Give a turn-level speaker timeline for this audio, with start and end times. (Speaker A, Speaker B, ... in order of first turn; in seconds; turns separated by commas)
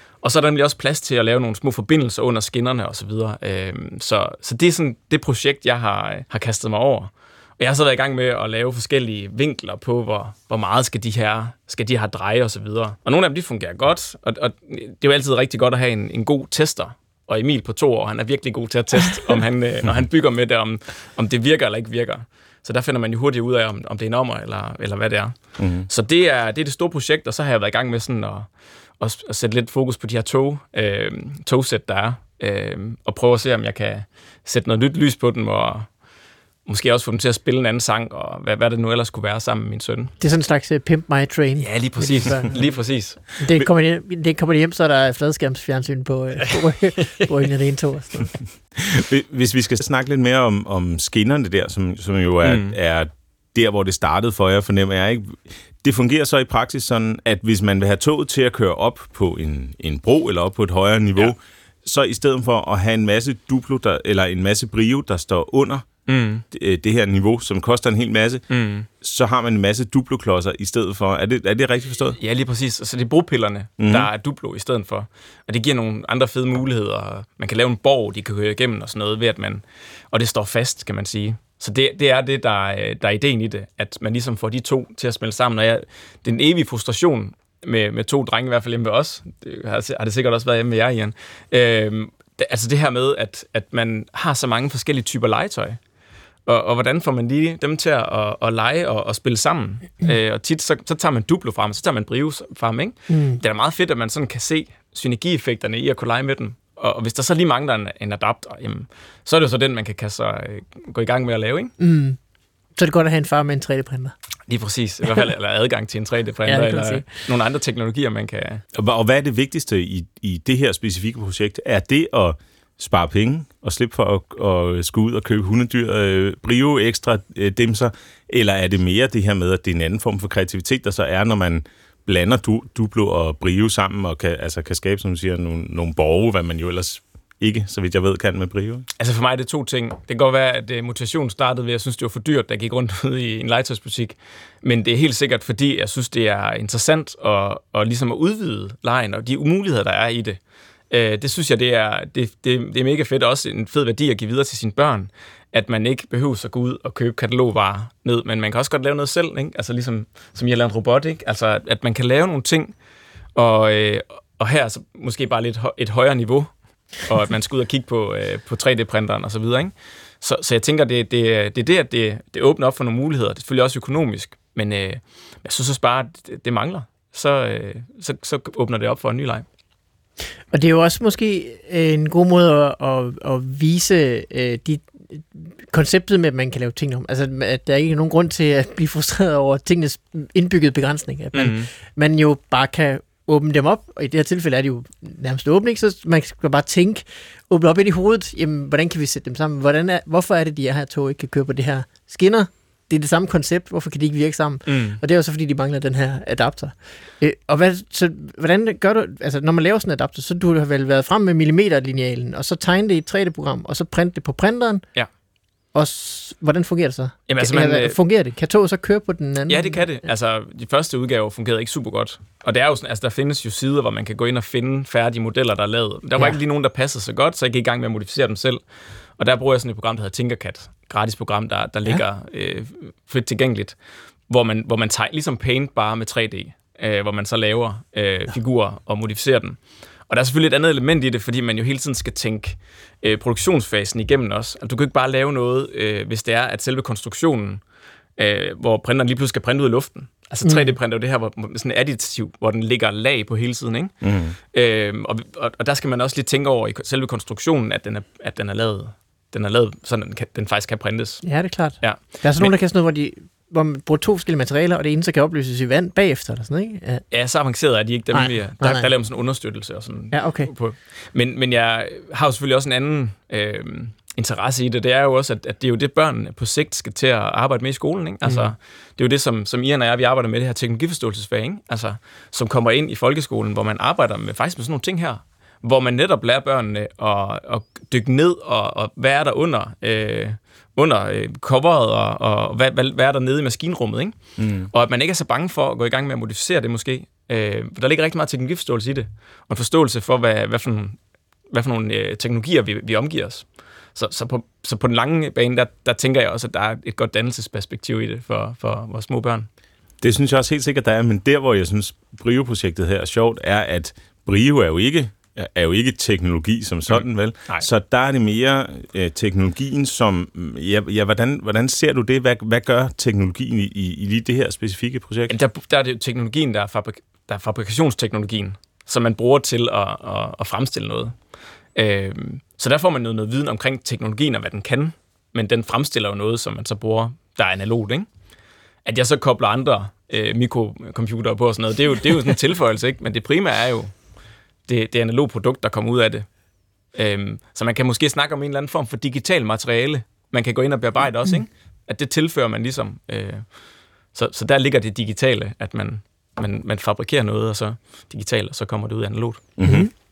Speaker A: 0.2-35.9, Speaker B: 25.6-25.9, Speaker A: 36.6-40.1, Speaker C: 40.2-48.4, Speaker A: 41.6-43.2, Speaker B: 48.8-65.9, Speaker A: 52.4-52.8, Speaker A: 66.1-66.4, Speaker B: 66.5-68.5, Speaker A: 68.5-68.9, Speaker B: 69.0-72.2, Speaker A: 72.2-95.8, Speaker B: 73.8-74.1, Speaker A: 96.5-111.7, Speaker C: 103.1-103.4, Speaker C: 111.8-112.2, Speaker C: 112.8-114.1, Speaker A: 114.5-118.6, Speaker C: 116.5-117.0, Speaker B: 118.8-138.9, Speaker A: 139.0-150.4, Speaker A: 150.9-162.7, Speaker A: 163.3-179.4, Speaker C: 180.5-214.8, Speaker A: 191.3-191.7, Speaker A: 204.7-205.0, Speaker C: 215.7-219.8, Speaker A: 217.3-218.0, Speaker A: 219.5-228.6, Speaker A: 229.2-233.8, Speaker A: 234.3-247.6, Speaker A: 248.2-262.5, Speaker C: 250.4-250.7, Speaker B: 254.0-254.3, Speaker C: 261.2-267.0, Speaker A: 267.1-301.0, Speaker C: 268.1-268.9, Speaker C: 270.1-270.5, Speaker C: 278.2-278.5, Speaker B: 294.4-294.7, Speaker A: 301.5-309.5, Speaker B: 310.0-325.3, Speaker A: 316.9-317.7, Speaker A: 325.3-331.2, Speaker A: 331.7-338.1, Speaker A: 338.8-344.0, Speaker A: 344.7-346.3, Speaker A: 346.9-353.6, Speaker A: 354.1-359.4, Speaker B: 359.6-359.9